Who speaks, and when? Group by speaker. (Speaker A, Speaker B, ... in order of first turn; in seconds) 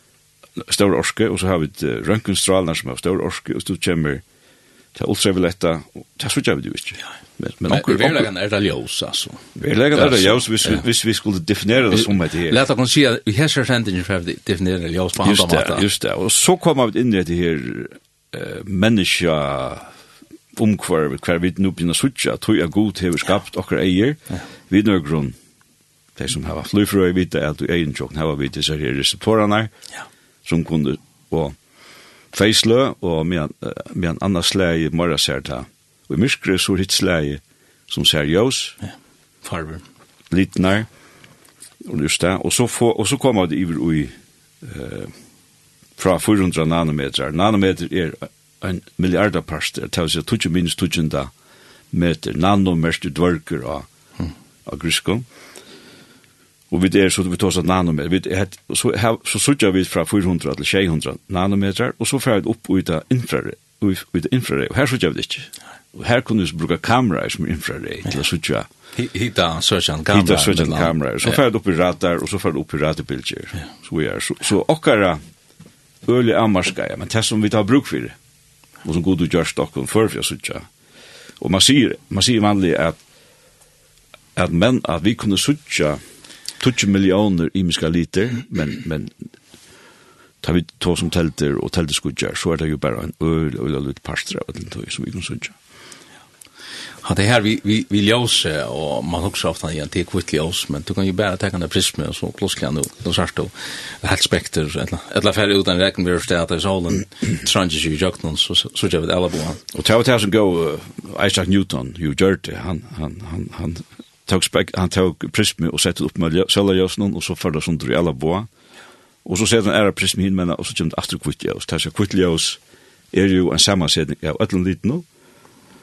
Speaker A: 0.6-4.2, 4.9-8.3, 9.6-12.6, 15.2-19.9, 20.5-25.4, 26.1-29.7, 30.4-31.6, 32.3-38.8, 40.3-40.9, 41.8-45.1, 46.0-51.3, 51.9-53.9, 54.6-55.2, 56.7-68.7, 70.1-75.2, 76.0-78.1, 78.8-80.7, 81.4-83.0, 84.3-86.0, 86.6-89.2, 90.4-95.5, 109.7-118.5, 119.2-122.6, 123.1-125.0
Speaker B: 7.7-10.8, 11.9-15.8, 39.4-39.8, 68.9-71.4, 97.0-109.6